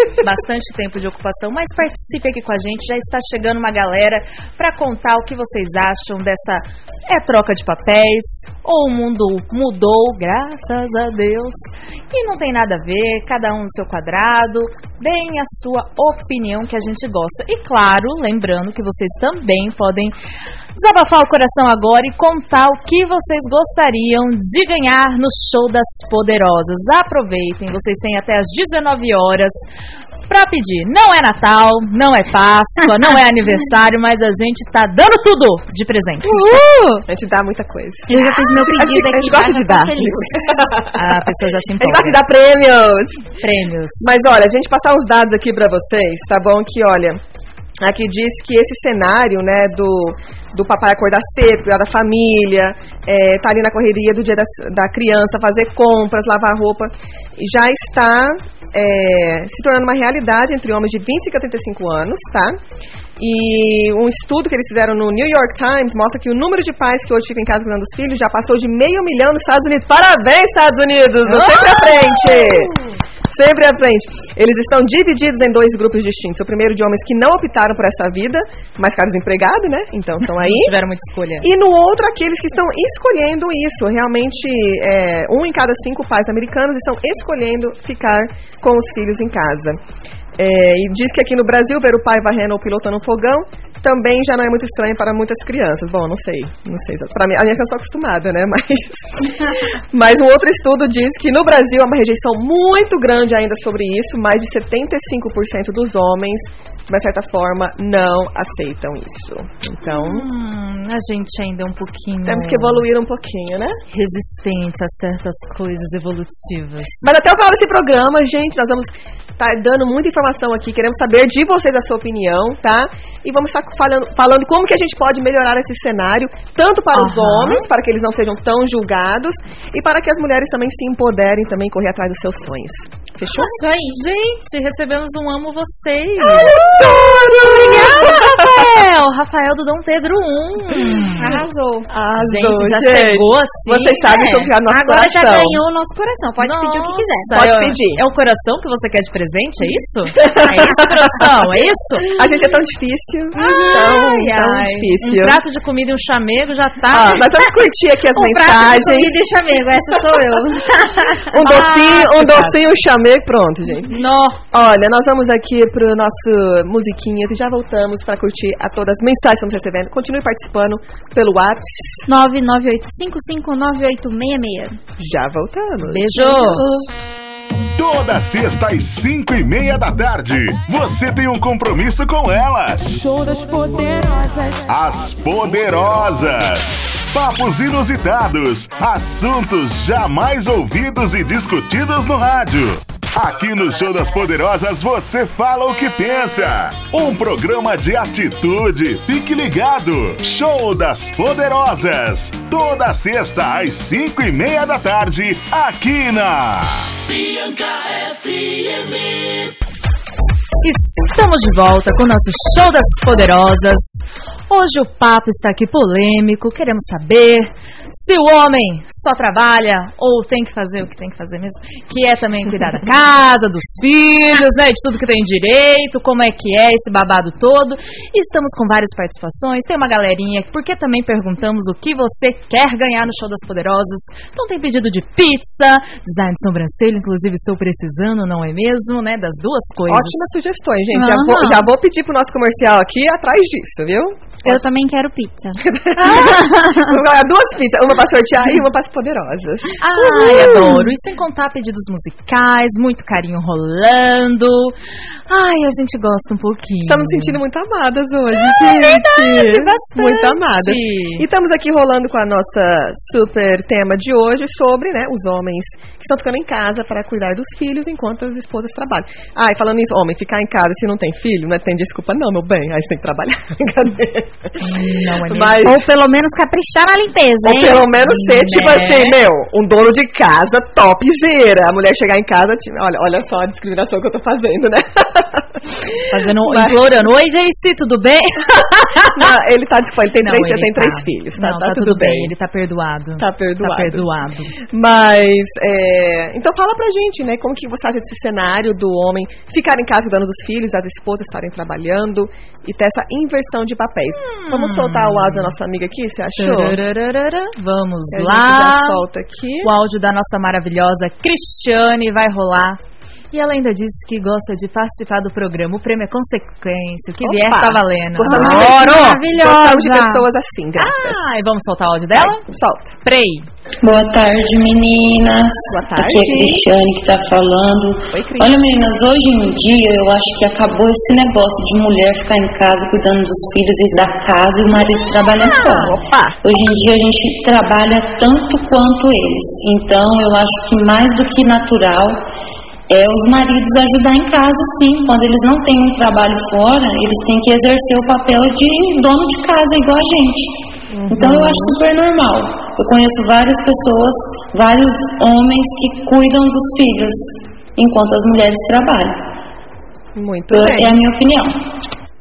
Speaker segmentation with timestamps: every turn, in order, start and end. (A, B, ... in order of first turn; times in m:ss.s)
0:00.2-0:11.6 A
0:12.1-0:20.2 A
0:20.8-0:29.5 A
0:30.3-0:36.4 A
0:36.3-0:37.1 B
0:37.1-0:41.1 C
0:38.1-0:40.7 B
0:40.9-0:42.2 A
0:41.8-0:43.2 C
0:43.4-0:44.0 A
0:44.0-0:47.2 C
0:47.8-1:02.6 C
1:03.2-1:12.8 C
1:11.2-1:12.7 A
1:13.3-1:20.7 C
1:20.3-1:21.5 A
1:21.4-1:29.8 C
1:30.4-1:50.3 C
1:49.8-1:52.9 A
1:52.3-1:53.8 C
1:53.9-1:57.0 A
1:57.0-2:13.6 C
2:06.9-2:07.7 A
2:13.3-2:16.6 A
2:16.3-2:18.6 C
2:16.5-2:18.1 B
2:17.3-2:21.4 A
2:21.2-2:21.9 B
2:21.9-2:25.6 C
2:22.2-2:24.5 A
2:24.7-2:27.3 B
2:26.4-2:32.1 A
2:27.3-2:28.0 C
2:30.2-2:31.1 C
2:32.1-2:35.4 C
2:33.3-2:37.3 A
2:36.9-2:39.1 C
2:38.1-2:41.3 B
2:41.2-2:44.0 C
2:41.4-2:42.6 A
2:43.9-2:44.4 A
2:44.5-2:51.7 C
2:52.1-2:54.8 B
2:55.0-2:56.6 C
2:55.8-2:56.6 A
2:56.2-2:56.9 B
2:57.8-3:03.0 D
3:02.8-3:05.1 E
3:04.7-3:29.0 D
3:30.6-3:33.8 A
3:34.5-4:00.2 A
3:59.9-4:04.6 C
4:00.9-4:01.7 B
4:04.4-4:07.0 B
4:05.7-4:10.9 C
4:09.8-4:14.8 A
4:15.3-4:17.4 A
4:16.9-4:34.6 C
4:18.4-4:21.2 A
4:34.6-4:35.7 A
4:35.3-4:35.8 C
4:35.6-4:37.9 B
4:37.4-4:45.6 C
4:37.9-4:39.2 A
4:46.1-4:49.3 A
4:46.4-4:46.8 C
4:49.1-4:52.3 C
4:50.2-4:54.6 A
4:53.2-4:54.1 C
4:54.7-5:06.8 C
5:04.1-5:05.6 A
5:06.4-5:09.0 A
5:08.1-5:09.7 C
5:09.6-5:12.8 A
5:13.3-5:19.2 A
5:17.2-5:21.2 C
5:18.2-5:20.3 B
5:20.8-5:22.4 A
5:22.2-5:22.9 C
5:23.0-5:23.5 A
5:23.8-5:42.3 F
5:25.7-5:26.6 C
5:28.1-5:28.6 C
5:35.6-5:36.4 C
5:42.9-5:59.3 F
5:50.9-5:51.8 C
6:00.2-6:01.0 C
6:00.5-6:01.7 F